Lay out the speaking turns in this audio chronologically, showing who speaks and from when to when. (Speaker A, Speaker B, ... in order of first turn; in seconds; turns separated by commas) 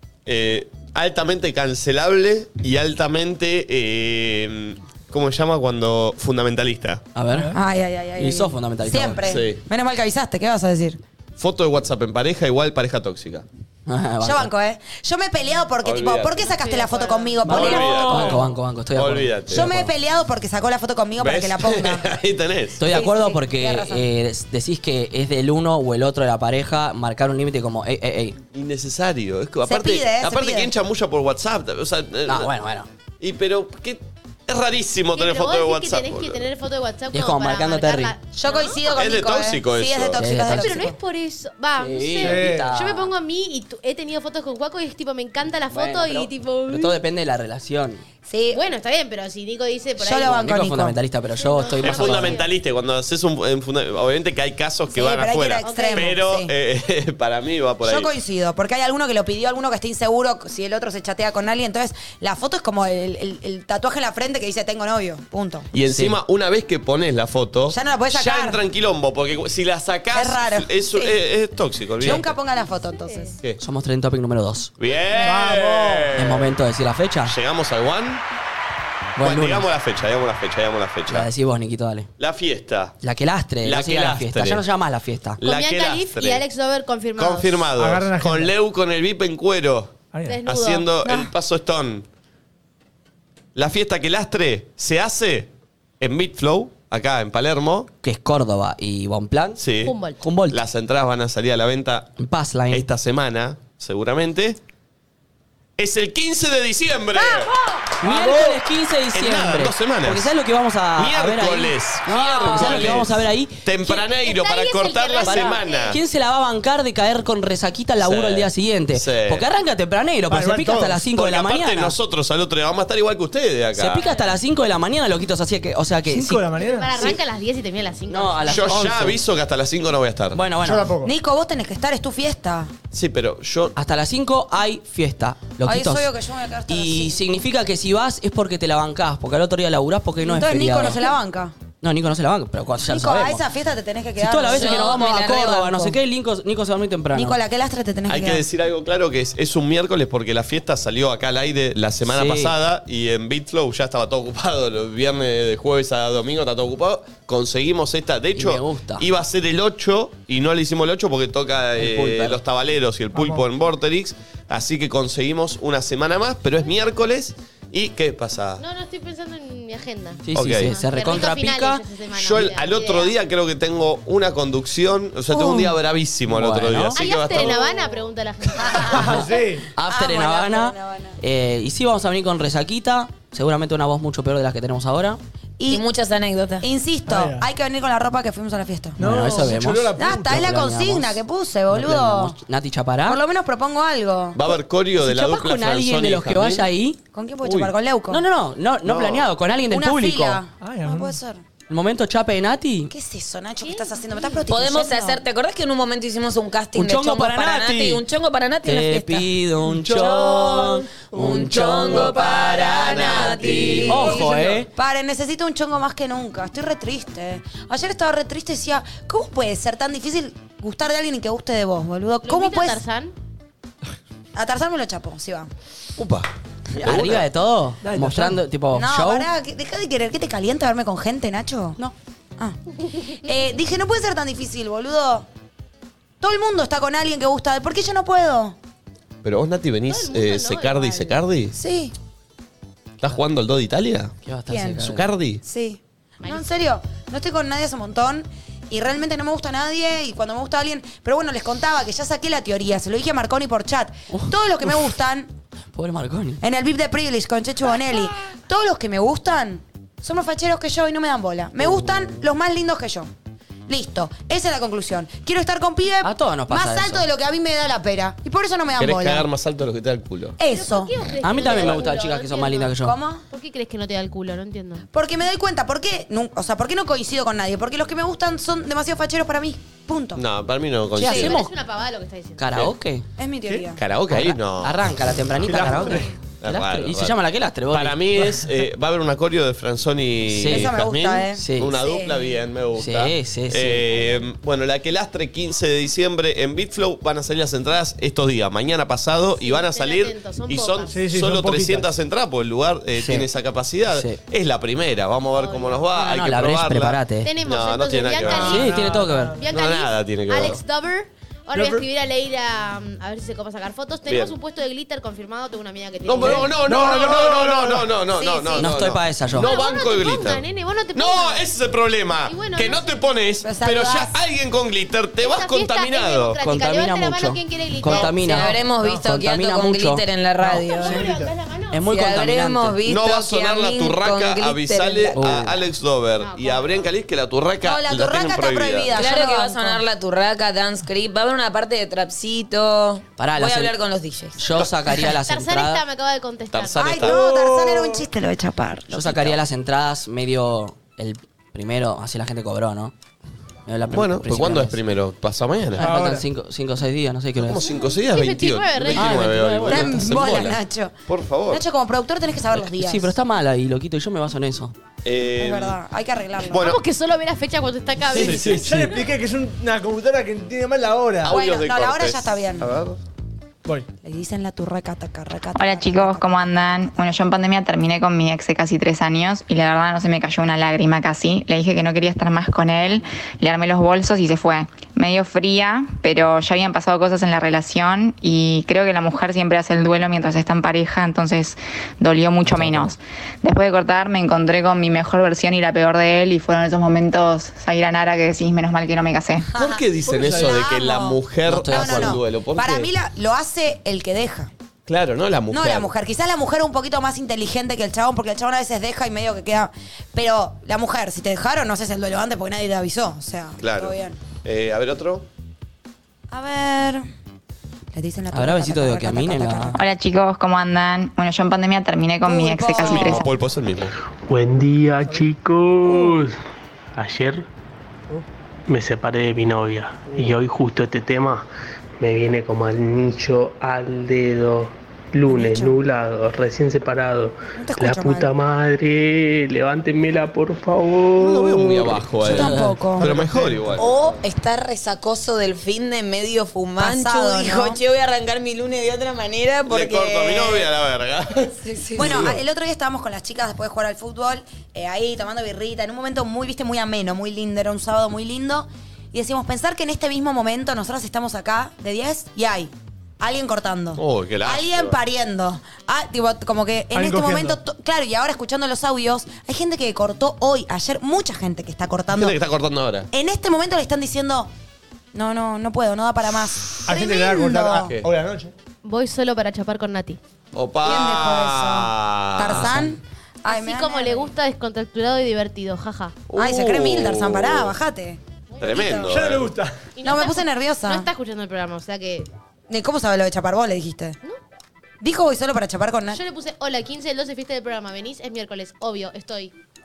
Speaker A: 0.3-7.0, Speaker B: 7.2-7.6, Speaker C: 7.5-11.0, Speaker B: 8.2-9.2, Speaker A: 9.2-9.6, Speaker A: 11.4-13.5, Speaker B: 13.9-14.5, Speaker C: 14.2-18.4, Speaker A: 15.8-16.4, Speaker D: 16.4-18.0, Speaker B: 17.4-19.9, Speaker A: 17.4-19.7, Speaker C: 19.5-22.1, Speaker A: 21.2-22.9, Speaker B: 22.8-28.4, Speaker C: 22.8-24.1, Speaker A: 28.5-32.5, Speaker C: 29.7-30.7, Speaker B: 32.3-32.9, Speaker A: 33.2-36.5, Speaker D: 35.1-38.9, Speaker B: 37.1-38.1, Speaker C: 38.3-41.0, Speaker A: 38.9-40.2, Speaker B: 40.2-40.9, Speaker D: 40.4-47.0, Speaker B: 41.8-43.1, Speaker E: 42.2-42.7, Speaker B: 45.7-48.0, Speaker C: 48.3-48.6, Speaker D: 48.5-50.4, Speaker C: 50.0-51.0, Speaker B: 50.2-52.4, Speaker D: 51.4-52.5, Speaker A: 51.8-58.1, Speaker C: 54.9-56.5, Speaker D: 55.6-56.2, Speaker C: 57.8-65.7, Speaker A: 65.7-72.3, Speaker B: 65.9-66.2, Speaker C: 67.7-68.6, Speaker C: 70.1-71.2, Speaker C: 72.0-73.4, Speaker B: 73.6-74.7, Speaker A: 74.8-76.5, Speaker E: 75.2-76.1, Speaker B: 76.1-77.3, Speaker A: 77.3-78.2, Speaker B: 79.2-79.7, Speaker A: 79.2-81.3, Speaker B: 81.1-82.1, Speaker A: 82.2-83.0, Speaker B: 83.0-85.4, Speaker A: 83.6-84.7, Speaker A: 85.4-86.5, Speaker D: 85.4-87.7, Speaker A: 87.2-92.1, Speaker E: 87.8-88.5, Speaker E: 90.1-90.4, Speaker D: 90.3-91.0, Speaker A: 93.5-97.9, Speaker B: 98.0-99.6, Speaker A: 99.6-100.0, Speaker D: 99.8-100.2, Speaker B: 100.2-100.6, Speaker A: 100.5-102.1, Speaker B: 102.2-102.9, Speaker A: 102.7-104.6, Speaker A: 105.8-107.5, Speaker D: 107.2-107.9, Speaker B: 108.0-113.6, Speaker A: 108.0-108.6, Speaker A: 109.1-110.3, Speaker A: 111.0-116.0, Speaker D: 112.2-112.8, Speaker D: 113.8-116.0, Speaker B: 115.2-122.0, Speaker A: 118.0-119.5, Speaker E: 120.3-121.1, Speaker A: 121.1-124.0, Speaker B: 123.8-126.4, Speaker D: 124.0-124.4, Speaker E: 126.1-127.1, Speaker D: 126.6-128.8, Speaker B: 128.1-129.2, Speaker A: 128.5-130.4, Speaker B: 130.3-130.9, Speaker E: 130.6-131.1, Speaker C: 131.0-132.7, Speaker A: 132.9-133.8, Speaker B: 133.8-136.1, Speaker C: 135.6-137.2, Speaker B: 136.7-141.0, Speaker C: 140.2-141.5, Speaker B: 141.8-143.4, Speaker C: 142.8-146.0, Speaker B: 144.2-147.4, Speaker F: 144.5-145.5, Speaker C: 147.1-148.4, Speaker A: 148.1-168.6, Speaker B: 152.1-152.5, Speaker B: 158.3-159.1, Speaker B: 161.8-162.4, Speaker E: 163.1-163.4, Speaker D: 168.6-173.2, Speaker B: 170.2-171.8, Speaker A: 170.3-170.8, Speaker A: 172.1-177.8, Speaker C: 175.4-175.7, Speaker B: 176.3-177.0, Speaker D: 176.9-179.4, Speaker C: 178.6-179.2, Speaker E: 178.9-179.7, Speaker B: 179.8-185.2, Speaker C: 179.8-181.2, Speaker F: 185.7-186.7, Speaker C: 186.6-189.0, Speaker E: 187.1-187.5, Speaker E: 189.0-190.5, Speaker B: 189.0-193.2, Speaker C: 190.0-192.3, Speaker C: 193.1-194.4, Speaker A: 194.3-196.7, Speaker B: 195.0-197.0, Speaker C: 197.1-198.2, Speaker A: 197.4-197.7, Speaker B: 198.1-200.4, Speaker A: 198.8-199.3, Speaker C: 199.7-201.4, Speaker E: 200.6-201.2, Speaker B: 201.7-202.9, Speaker C: 202.9-205.2, Speaker D: 203.6-204.5, Speaker F: 204.5-209.2, Speaker B: 206.8-208.0, Speaker B: 208.6-214.7, Speaker F: 209.9-214.3, Speaker E: 209.9-210.2, Speaker E: 211.5-212.5, Speaker A: 212.8-213.9, Speaker C: 213.1-222.8, Speaker E: 213.6-214.6, Speaker D: 222.2-223.1, Speaker C: 224.3-225.5, Speaker A: 226.0-226.3, Speaker B: 226.8-229.3, Speaker A: 226.8-227.2, Speaker E: 227.8-228.4, Speaker C: 228.7-231.8, Speaker C: 233.1-235.3, Speaker C: 236.2-238.6, Speaker A: 239.2-241.6, Speaker D: 239.9-241.2, Speaker C: 241.5-241.9, Speaker A: 243.0-244.1, Speaker B: 244.2-245.1, Speaker C: 244.5-244.9, Speaker A: 244.8-245.4, Speaker C: 245.4-255.3, Speaker D: 246.2-246.5, Speaker B: 255.7-256.4, Speaker C: 256.4-263.1, Speaker C: 263.7-269.3, Speaker B: 266.0-267.1, Speaker A: 268.8-270.4, Speaker C: 270.4-271.8, Speaker D: 270.4-272.8, Speaker B: 271.2-272.9, Speaker C: 272.8-273.2, Speaker D: 273.3-274.9, Speaker C: 274.9-280.2, Speaker A: 280.2-281.4, Speaker B: 281.0-281.5, Speaker D: 281.1-282.6, Speaker B: 282.4-283.1, Speaker C: 283.2-283.8, Speaker A: 283.8-287.2, Speaker B: 284.1-288.1, Speaker E: 285.5-285.9, Speaker A: 287.7-308.7, Speaker B: 290.3-290.8, Speaker C: 290.5-292.4, Speaker B: 291.4-291.8, Speaker B: 292.8-293.9, Speaker D: 299.4-301.0, Speaker E: 300.9-301.9, Speaker B: 303.0-303.3, Speaker B: 303.9-304.2, Speaker D: 305.3-305.9, Speaker B: 305.9-307.3, Speaker D: 307.2-316.5, Speaker E: 308.2-309.4, Speaker B: 308.4-309.4, Speaker A: 309.5-310.6, Speaker E: 311.6-311.9, Speaker A: 314.1-314.4, Speaker A: 316.1-326.4, Speaker E: 316.3-317.9, Speaker C: 318.1-318.8, Speaker B: 318.6-319.5, Speaker D: 319.4-321.5, Speaker D: 322.2-323.0, Speaker C: 323.4-324.2, Speaker D: 325.2-328.5, Speaker B: 326.4-330.0, Speaker F: 327.9-331.1, Speaker D: 330.5-331.9, Speaker E: 330.8-331.3, Speaker B: 331.7-332.8, Speaker F: 331.9-335.2, Speaker A: 332.9-339.0, Speaker B: 335.2-335.7, Speaker D: 336.2-336.9, Speaker C: 337.6-339.8, Speaker F: 338.9-344.4, Speaker B: 343.2-343.7, Speaker B: 344.4-345.8, Speaker D: 345.2-347.0, Speaker A: 346.5-347.2, Speaker C: 346.8-349.4, Speaker E: 347.1-348.1, Speaker B: 348.9-352.9, Speaker B: 353.7-354.8, Speaker A: 353.9-355.9, Speaker B: 355.8-357.7, Speaker E: 355.8-356.2, Speaker A: 357.4-361.6, Speaker D: 357.7-359.4, Speaker B: 358.9-360.3, Speaker C: 359.7-360.9, Speaker C: 361.5-363.1, Speaker B: 362.6-364.7, Speaker A: 365.0-365.8, Speaker C: 365.4-366.7, Speaker A: 366.5-366.8, Speaker D: 366.5-369.1, Speaker A: 368.0-369.0, Speaker E: 368.1-371.4, Speaker A: 371.2-373.0, Speaker C: 371.3-372.7, Speaker C: 374.0-376.3, Speaker G: 375.6-399.5, Speaker B: 392.5-392.9, Speaker C: 399.5-404.5, Speaker A: 399.6-402.9, Speaker E: 400.1-400.6, Speaker B: 401.5-402.2, Speaker A: 404.9-405.9, Speaker C: 405.5-414.2, Speaker A: 413.6-415.3, Speaker C: 416.3-417.0, Speaker C: 417.9-419.8, Speaker B: 418.3-419.8, Speaker G: 419.8-423.3, Speaker C: 422.2-423.3, Speaker A: 422.8-423.9, Speaker H: 424.3-426.4, Speaker H: 426.9-427.5, Speaker H: 428.7-431.5, Speaker H: 432.0-442.1, Speaker C: 435.3-435.8, Speaker C: 437.6-438.3, Speaker A: 441.2-443.9, Speaker B: 442.2-442.8, Speaker C: 442.2-443.1, Speaker E: 443.0-443.8, Speaker F: 443.8-450.7, Speaker C: 446.8-447.8, Speaker A: 449.7-452.4, Speaker C: 451.6-472.4, Speaker A: 464.0-465.0, Speaker E: 466.9-467.6, Speaker A: 472.1-473.1, Speaker C: 473.1-474.5, Speaker C: 475.1-478.0, Speaker E: 476.9-478.5, Speaker D: 478.8-480.2, Speaker A: 480.5-482.9, Speaker C: 480.8-484.3, Speaker D: 483.5-486.3, Speaker A: 486.3-487.8, Speaker C: 486.4-489.1, Speaker D: 488.5-488.8, Speaker A: 488.6-489.5, Speaker E: 489.1-489.8, Speaker D: 489.9-492.3, Speaker C: 490.0-491.1, Speaker C: 492.7-494.2, Speaker C: 495.0-496.2, Speaker D: 496.1-499.5